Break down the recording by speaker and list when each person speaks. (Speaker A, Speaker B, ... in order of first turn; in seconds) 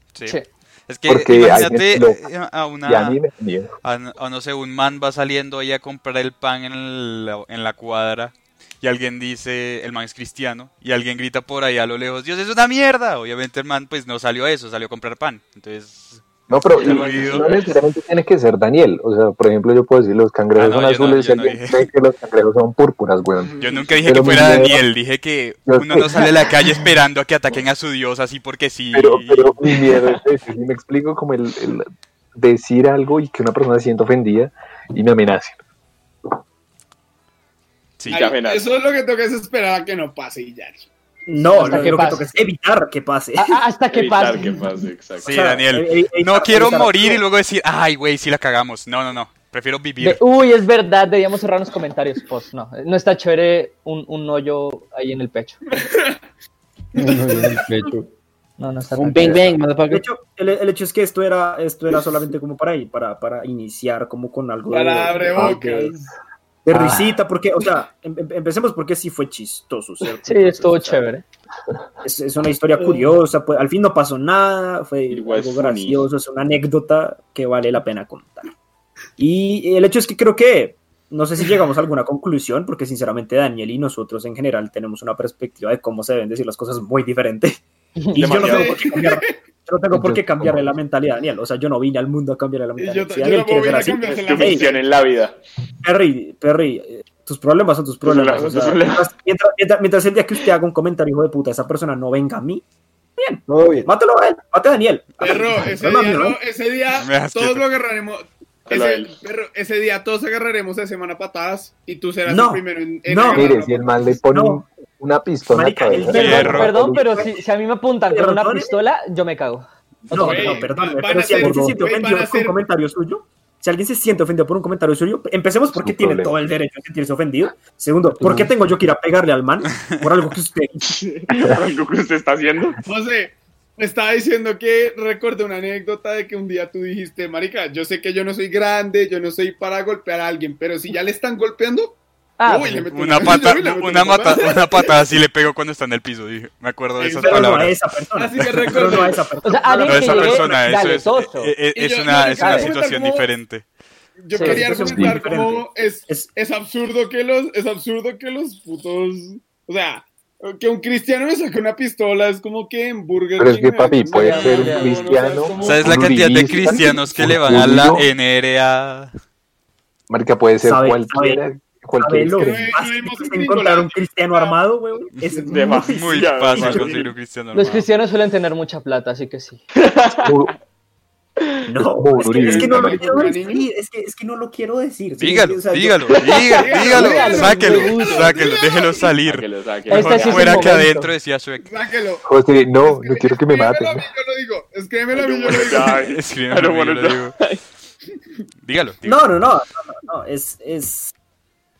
Speaker A: 0.1-3.2, 3.8-17.6, 20.6-21.9, 23.6-29.6, 45.2-50.2, 107.0-107.7, 116.1-116.7, 142.9-147.8, 149.7-153.7, 165.6-169.1, 175.2-177.9, 185.2-191.7, 195.9-197.3, 198.6-199.3
Speaker B: 1.1-2.2, 2.8-3.7, 16.5-24.8, 25.7-26.3, 28.9-35.6, 66.7-67.2, 89.9-90.8, 113.3-117.3, 125.7-126.4, 154.8-155.2, 163.4-168.1, 170.1-172.7, 180.2-180.5, 181.8-183.3, 192.2-194.1
Speaker C: 16.8-17.8, 38.1-38.7, 43.9-45.4, 75.1-76.1, 88.2-89.0, 94.0-95.4, 98.0-99.1, 108.7-109.2, 130.9-132.8, 175.5-177.0, 179.8-180.5, 186.2-186.6, 189.3-190.6, 195.1-197.6
Speaker D: 38.1-40.9, 41.5-42.0, 55.8-56.2, 57.0-57.9, 64.7-66.1, 88.4-89.4, 92.8-94.8, 105.2-114.0, 120.1-122.6, 132.8-145.1, 147.0-150.7, 151.7-153.3, 154.2-167.1, 172.3-174.6, 176.7-177.1, 182.2-183.7, 186.3-189.2, 191.6-192.3, 192.8-196.1
Speaker E: 41.3-43.6, 45.3-47.2, 59.9-65.9, 66.7-71.0, 72.0-78.5, 79.2-87.6, 88.1-94.7, 95.8-102.6, 103.2-106.4, 112.3-113.5, 114.3-114.7, 115.5-117.3, 118.1-118.8, 120.1-130.9, 147.2-150.3, 154.4-156.3, 170.6-171.4, 172.0-177.1, 181.7-186.2, 199.1-201.1
Speaker F: 41.5-42.3, 43.4-44.9, 50.0-55.6, 58.6-59.5, 70.2-71.2, 116.1-120.7, 142.4-142.9, 149.4-151.6, 152.4-152.7, 154.3-154.6, 164.1-165.2, 177.5-179.6, 186.9-188.3, 189.9-191.1
Speaker G: 57.0-58.1, 59.0-60.0, 103.5-103.9, 121.4-121.7, 128.1-128.5